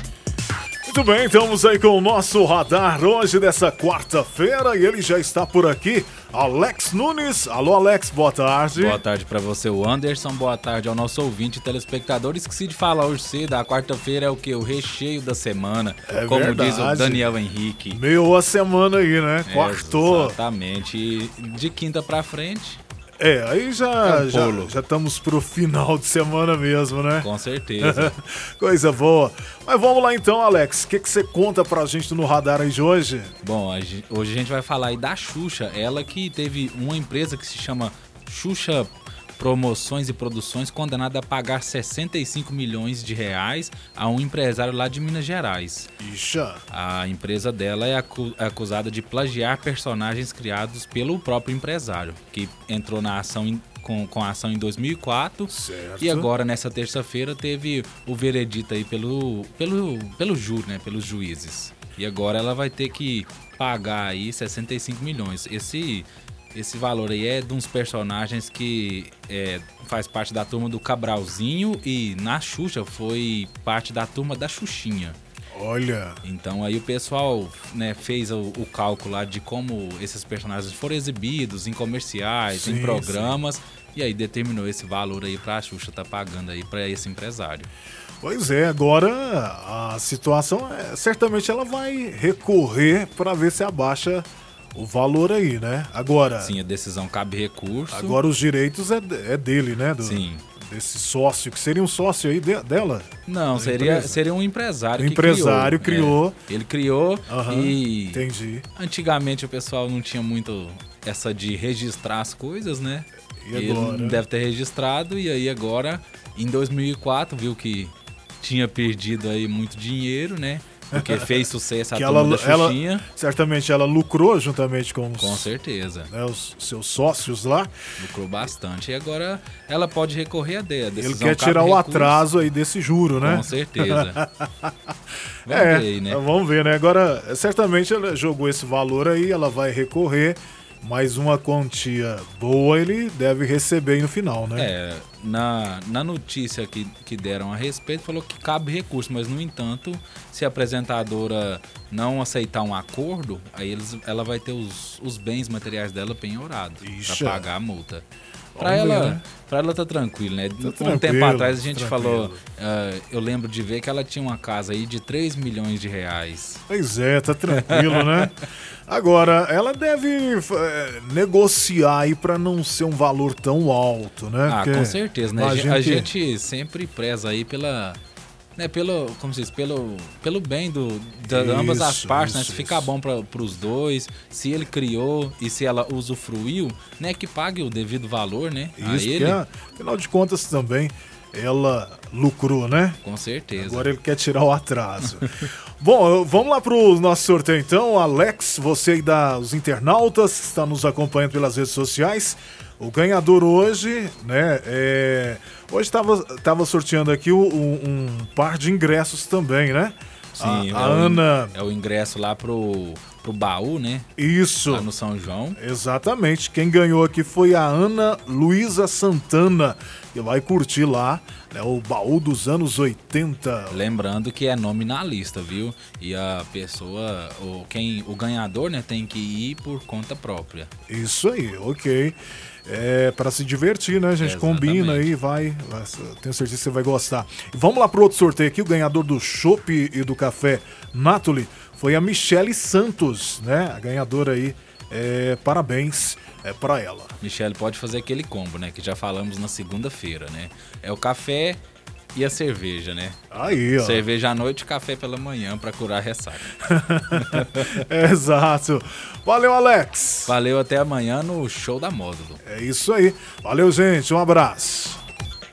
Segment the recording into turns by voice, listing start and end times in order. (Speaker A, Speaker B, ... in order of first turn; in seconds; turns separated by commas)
Speaker A: 0.8-9.0, Speaker B: 8.7-18.0, Speaker A: 16.1-17.3, Speaker A: 17.9-20.4, Speaker B: 19.4-22.8, Speaker A: 23.2-33.3, Speaker B: 24.0-24.7, Speaker B: 27.2-28.1, Speaker B: 33.4-45.9, Speaker A: 46.0-46.6, Speaker B: 46.7-75.2, Speaker A: 55.5-56.3, Speaker A: 75.5-76.2, Speaker B: 76.2-87.7, Speaker A: 82.5-83.4, Speaker A: 88.2-96.5, Speaker B: 96.4-98.2, Speaker A: 97.9-104.2, Speaker B: 100.0-100.4, Speaker B: 103.2-108.2, Speaker A: 105.0-106.4, Speaker A: 107.3-108.7, Speaker B: 108.8-123.0, Speaker A: 113.4-114.2, Speaker A: 120.9-125.5, Speaker B: 125.2-126.1, Speaker A: 126.1-127.7, Speaker B: 128.0-132.2, Speaker A: 130.9-134.7, Speaker B: 133.2-134.2, Speaker B: 135.4-136.2, Speaker A: 135.5-144.7, Speaker B: 144.5-158.1, Speaker A: 156.8-157.5, Speaker A: 158.6-159.2, Speaker B: 158.6-166.6, Speaker A: 160.6-162.4, Speaker A: 166.7-176.1, Speaker B: 167.7-168.3, Speaker B: 174.4-178.0, Speaker B: 178.6-189.4, Speaker A: 181.2-182.9, Speaker A: 188.8-193.0, Speaker B: 193.0-193.9, Speaker A: 193.5-211.5, Speaker B: 210.3-214.1, Speaker A: 214.2-214.9, Speaker B: 214.7-215.6, Speaker A: 215.6-223.8, Speaker B: 223.7-230.7, Speaker A: 230.9-247.1, Speaker B: 234.2-235.1, Speaker B: 247.2-251.6, Speaker B: 252.1-256.6, Speaker A: 253.3-254.1, Speaker A: 256.6-260.3, Speaker B: 257.1-257.8, Speaker B: 260.2-262.4, Speaker A: 262.4-265.0